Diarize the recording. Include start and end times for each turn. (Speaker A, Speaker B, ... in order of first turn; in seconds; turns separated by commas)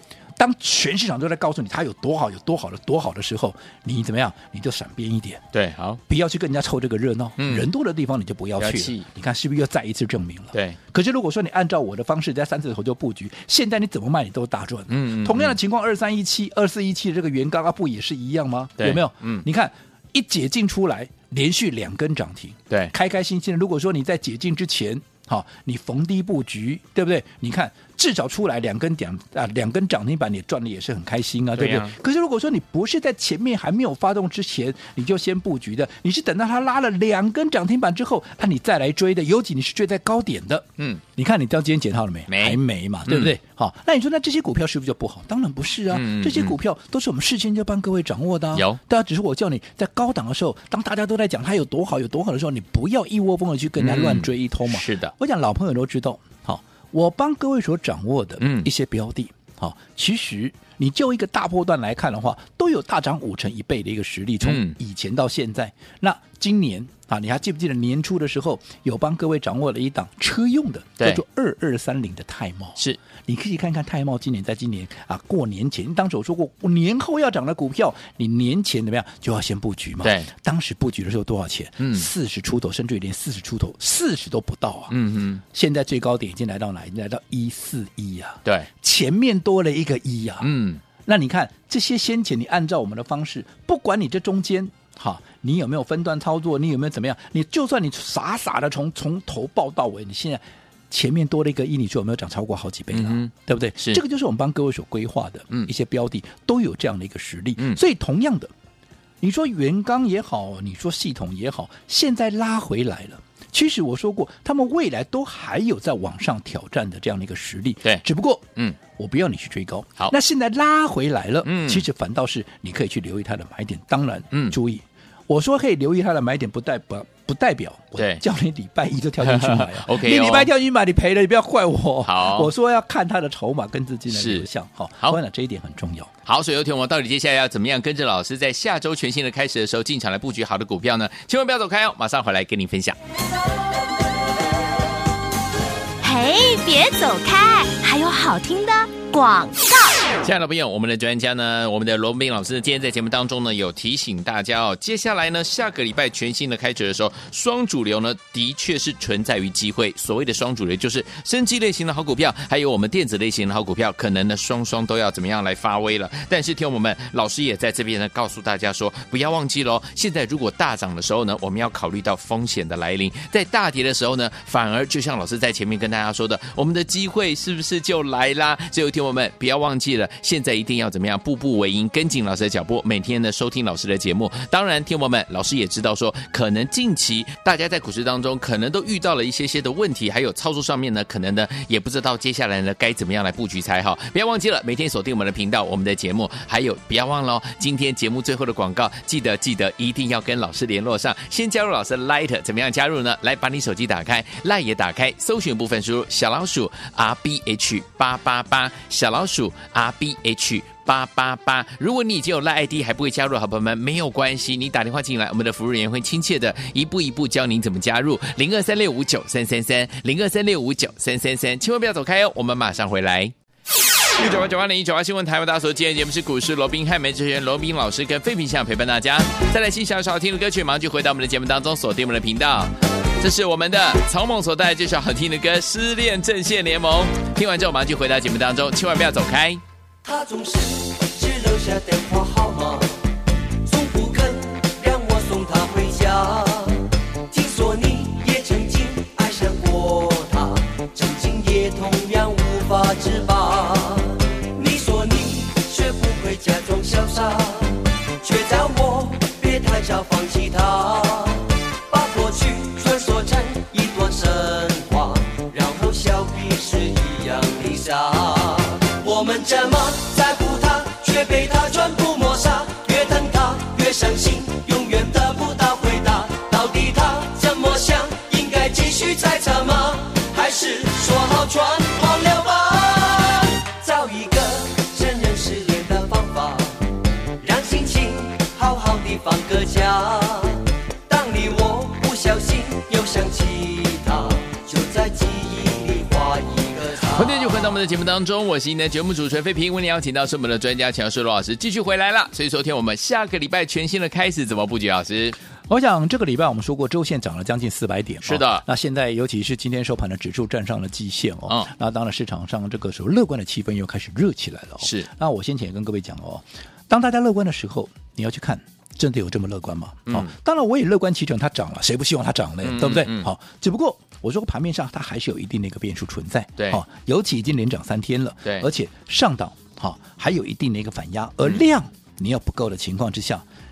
Speaker A: 0.4-5.4, Speaker B: 5.5-6.0, Speaker A: 6.1-84.9, Speaker B: 7.4-7.7, Speaker B: 8.6-9.1, Speaker B: 10.5-10.8, Speaker B: 14.9-15.6, Speaker B: 18.8-19.4, Speaker B: 31.5-31.9, Speaker B: 42.3-43.3, Speaker B: 45.9-46.6, Speaker B: 48.5-48.8, Speaker B: 53.8-55.1, Speaker B: 58.4-58.7, Speaker B: 64.4-64.8, Speaker B: 80.0-80.3, Speaker B: 81.8-82.1, Speaker B: 84.9-85.4, Speaker A: 85.5-90.5, Speaker B: 90.4-90.8, Speaker A: 91.0-108.5, Speaker B: 102.9-104.0, Speaker A: 109.2-136.1, Speaker B: 121.4-121.8, Speaker B: 128.0-128.2, Speaker B: 129.2-130.5, Speaker B: 132.0-132.5, Speaker B: 134.1-134.5, Speaker B: 136.2-142.9, Speaker C: 146.0-150.0, Speaker B: 150.2-223.3, Speaker B: 224.1-239.6, Speaker D: 240.0-242.9, Speaker D: 243.6-286.8, Speaker D: 287.4-297.7, Speaker B: 297.1-305.4, Speaker A: 305.7-333.4, Speaker B: 308.2-308.6, Speaker B: 314.8-315.1, Speaker B: 320.1-320.3, Speaker B: 322.6-323.3